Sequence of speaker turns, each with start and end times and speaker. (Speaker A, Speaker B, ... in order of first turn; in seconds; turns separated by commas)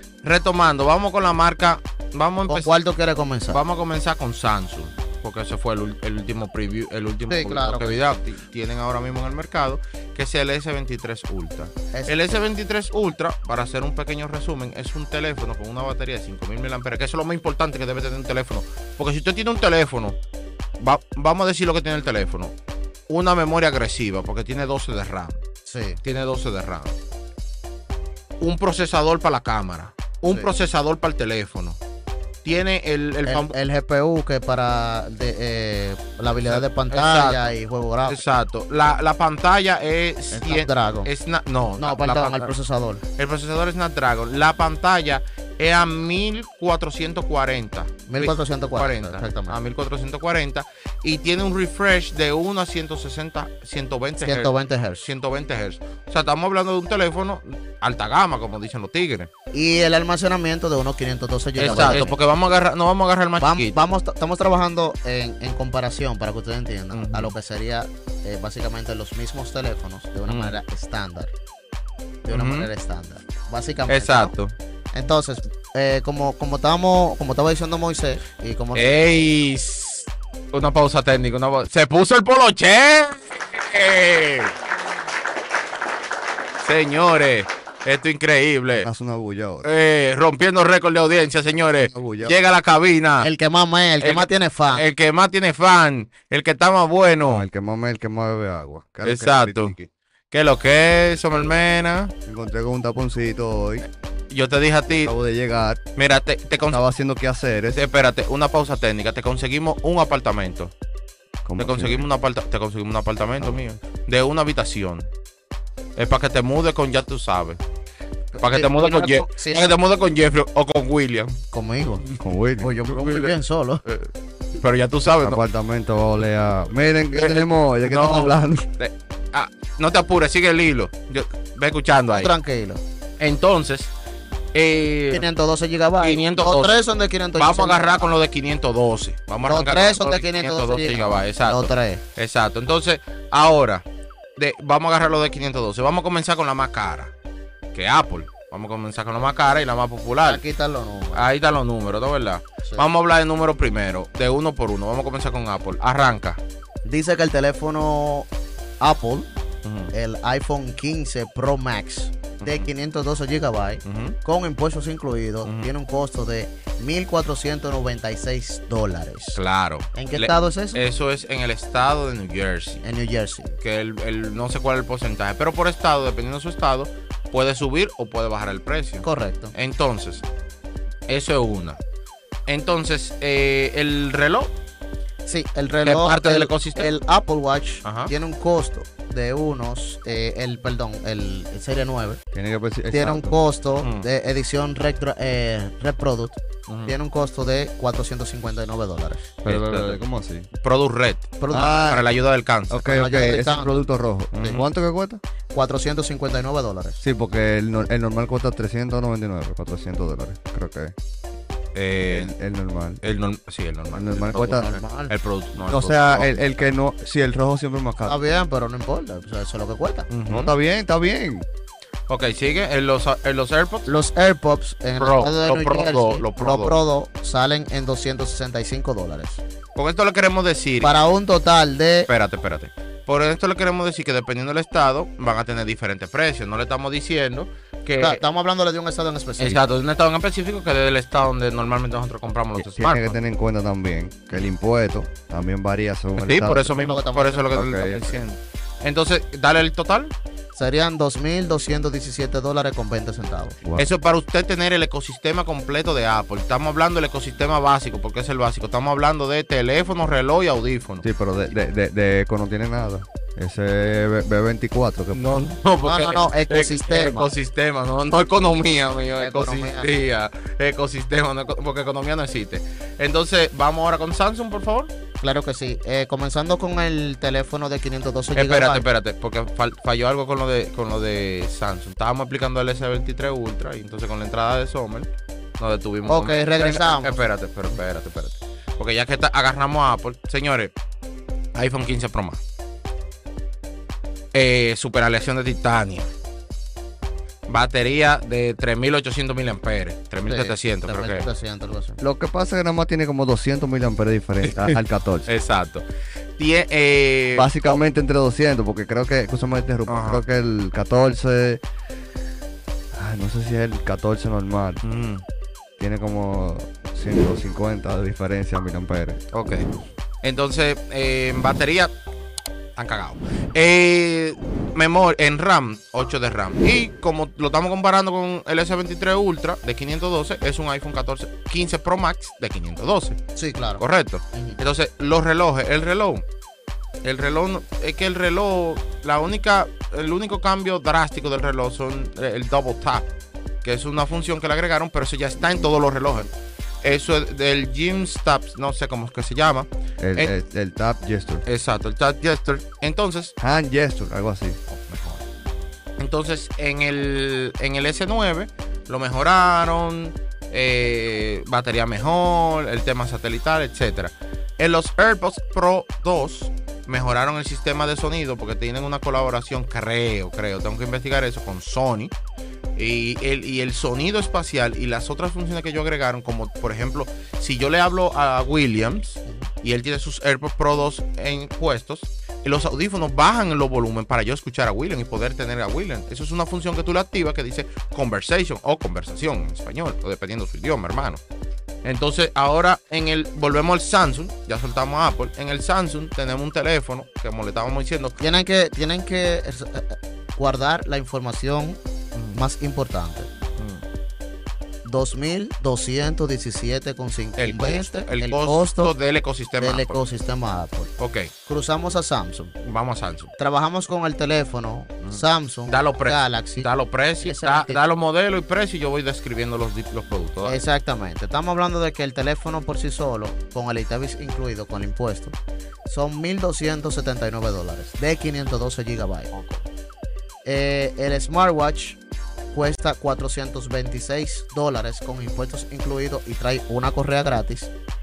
Speaker A: 0.2-2.8, Speaker B: 2.5-3.6, Speaker A: 3.5-20.2, Speaker B: 7.3-8.0, Speaker B: 11.9-12.4, Speaker A: 20.8-22.5, Speaker A: 23.1-25.4, Speaker B: 25.6-26.0, Speaker A: 26.0-26.9, Speaker A: 28.4-31.8, Speaker A: 32.4-33.5, Speaker B: 33.2-38.2, Speaker A: 36.4-37.5, Speaker A: 38.1-42.5, Speaker B: 40.3-41.1, Speaker B: 41.8-43.0, Speaker A: 43.2-54.5, Speaker B: 48.1-49.5, Speaker B: 54.2-55.0, Speaker A: 55.0-59.3, Speaker B: 59.5-62.1, Speaker A: 61.6-63.8, Speaker B: 63.4-71.3, Speaker A: 66.9-67.3, Speaker A: 70.3-70.5, Speaker B: 72.2-74.3, Speaker A: 72.3-72.7, Speaker A: 73.9-74.5, Speaker B: 74.9-79.0, Speaker A: 78.7-84.5, Speaker A: 86.6-88.9, Speaker C: 88.8-89.7, Speaker A: 89.6-93.3, Speaker C: 91.8-92.3, Speaker B: 93.2-94.8, Speaker A: 94.0-97.5, Speaker C: 97.2-99.8, Speaker A: 99.0-99.8, Speaker A: 100.3-102.1, Speaker C: 102.2-103.8, Speaker A: 104.3-105.1, Speaker C: 104.9-105.8, Speaker A: 106.0-106.8, Speaker C: 106.7-107.8, Speaker A: 107.7-110.7, Speaker C: 111.4-112.1, Speaker A: 111.6-115.1, Speaker A: 116.0-117.6, Speaker B: 118.3-119.7, Speaker A: 118.4-121.4, Speaker B: 121.5-122.1, Speaker C: 122.2-122.7, Speaker B: 122.6-123.8, Speaker A: 122.9-123.3, Speaker A: 123.8-125.4, Speaker C: 125.2-128.7, Speaker A: 127.1-132.3, Speaker B: 132.1-132.8, Speaker A: 133.2-133.9, Speaker A: 134.5-135.2, Speaker B: 135.1-138.1, Speaker A: 136.0-136.8, Speaker A: 137.4-143.8, Speaker B: 139.4-142.0, Speaker A: 144.4-147.1, Speaker A: 147.7-150.4, Speaker B: 150.2-151.3, Speaker A: 151.1-156.4, Speaker B: 156.8-158.3, Speaker B: 158.8-159.3, Speaker A: 159.6-159.9, Speaker B: 159.9-169.4, Speaker A: 163.8-164.2, Speaker A: 165.4-165.7, Speaker A: 169.3-172.8, Speaker B: 169.9-170.8, Speaker B: 172.8-173.6, Speaker A: 173.6-180.2, Speaker B: 179.0-179.5, Speaker A: 181.1-181.8, Speaker A: 182.5-184.5, Speaker B: 185.2-192.2, Speaker A: 185.8-186.9, Speaker A: 187.8-188.1, Speaker C: 192.3-193.4, Speaker B: 192.9-199.3, Speaker A: 193.8-194.1, Speaker A: 196.7-196.9, Speaker C: 199.4-200.5, Speaker A: 199.4-200.0, Speaker A: 200.6-203.0, Speaker B: 201.4-202.0, Speaker C: 201.5-202.0, Speaker C: 202.7-205.2, Speaker B: 202.9-203.8, Speaker A: 204.3-204.6, Speaker B: 205.5-207.0, Speaker C: 207.0-210.9, Speaker A: 211.7-212.3, Speaker C: 212.0-213.0, Speaker A: 213.0-216.4, Speaker C: 213.9-214.7, Speaker B: 214.4-215.1, Speaker C: 215.7-218.2, Speaker B: 218.1-220.1, Speaker A: 220.1-220.5, Speaker C: 220.3-221.5, Speaker A: 222.1-223.9, Speaker B: 223.9-229.4, Speaker A: 225.0-226.8, Speaker A: 229.8-230.9, Speaker B: 230.8-232.1, Speaker A: 232.1-238.2, Speaker B: 238.0-239.6, Speaker A: 239.4-243.2, Speaker C: 242.6-246.7, Speaker A: 246.2-250.1, Speaker B: 246.7-247.5, Speaker C: 247.5-248.2, Speaker B: 250.5-253.6, Speaker C: 253.6-253.9, Speaker A: 253.8-261.0, Speaker C: 261.0-265.4, Speaker A: 265.1-274.9, Speaker B: 265.8-267.3, Speaker B: 269.2-269.9, Speaker B: 275.2-278.8, Speaker A: 278.3-290.7, Speaker B: 286.1-287.1, Speaker A: 291.5-292.4, Speaker A: 294.3-296.1, Speaker A: 297.5-301.3, Speaker B: 300.2-302.0, Speaker C: 302.0-305.3, Speaker A: 304.4-305.8, Speaker A: 306.4-307.7, Speaker C: 307.3-311.6, Speaker A: 309.9-310.2, Speaker C: 312.9-314.8, Speaker A: 314.8-315.2, Speaker C: 315.8-319.2, Speaker A: 319.3-319.6, Speaker A: 320.2-321.9, Speaker A: 322.8-333.2, Speaker B: 333.4-333.8, Speaker A: 333.8-336.2, Speaker B: 334.3-334.6, Speaker A: 337.0-343.1, Speaker A: 343.6-346.3, Speaker A: 346.8-350.3, Speaker C: 350.0-351.4, Speaker A: 351.4-353.3, Speaker C: 353.4-354.6, Speaker A: 354.7-355.2, Speaker A: 356.0-372.1, Speaker A: 372.8-391.2, Speaker A: 391.8-398.2, Speaker B: 398.2-401.8, Speaker B: 402.3-403.3, Speaker A: 403.6-403.8, Speaker B: 404.8-408.9, Speaker A: 407.4-410.0, Speaker B: 409.6-410.9, Speaker A: 411.0-411.3, Speaker B: 411.4-412.6, Speaker A: 412.6-413.3, Speaker B: 413.4-416.7, Speaker A: 415.0-420.6, Speaker B: 417.2-417.8, Speaker B: 420.4-429.3, Speaker A: 429.3-429.6, Speaker B: 430.4-432.0, Speaker B: 432.5-437.7